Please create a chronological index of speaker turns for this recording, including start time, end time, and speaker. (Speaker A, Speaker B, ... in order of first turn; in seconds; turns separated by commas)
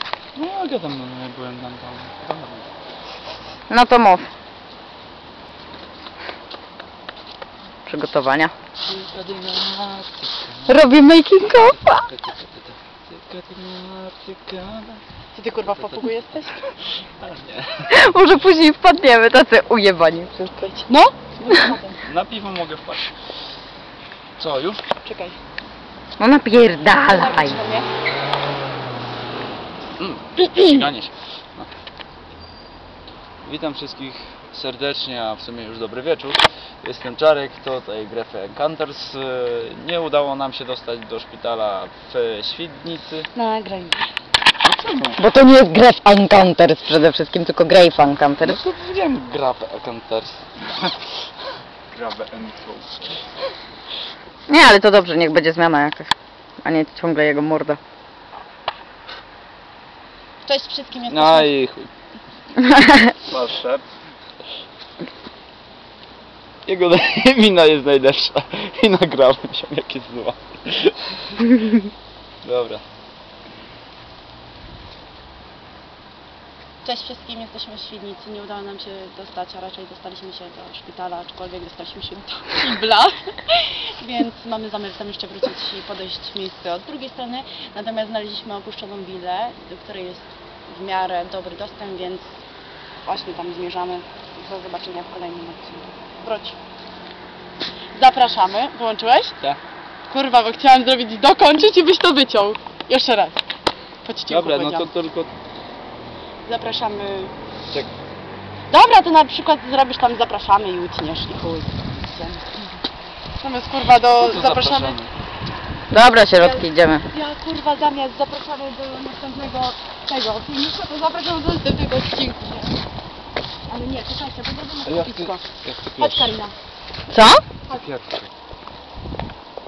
Speaker A: 0.3-2.7, Speaker B: 3.7-4.3, Speaker B: 7.8-8.5, Speaker A: 8.8-10.8, Speaker B: 10.7-12.1, Speaker A: 11.5-15.0, Speaker C: 15.3-16.6, Speaker A: 15.7-16.0, Speaker A: 17.2-17.9, Speaker B: 17.9-20.6, Speaker C: 20.6-22.0, Speaker A: 22.0-23.1, Speaker A: 24.4-24.8, Speaker C: 25.0-25.4, Speaker B: 26.2-27.6, Speaker C: 27.1-27.9, Speaker A: 30.0-31.7, Speaker A: 33.4-43.3, Speaker C: 43.3-44.1, Speaker A: 44.6-45.2, Speaker B: 45.1-48.6, Speaker A: 48.4-50.9, Speaker A: 51.9-53.0, Speaker B: 54.5-56.1, Speaker B: 56.6-57.8, Speaker C: 60.4-61.5, Speaker A: 61.1-61.9, Speaker B: 62.6-63.1, Speaker A: 63.2-63.8, Speaker A: 66.7-71.8, Speaker A: 72.4-72.8, Speaker C: 76.8-92.4, Speaker C: 93.0-96.6, Speaker C: 97.9-99.3, Speaker C: 100.1-103.4, Speaker C: 104.0-104.9, Speaker A: 104.3-105.3, Speaker C: 106.5-107.3, Speaker C: 108.7-112.7, Speaker C: 113.3-115.0, Speaker A: 114.1-115.1, Speaker B: 115.9-117.0, Speaker C: 115.9-122.8, Speaker C: 123.7-125.4, Speaker A: 124.8-126.3, Speaker C: 126.0-126.5, Speaker B: 127.1-127.4, Speaker A: 127.7-128.3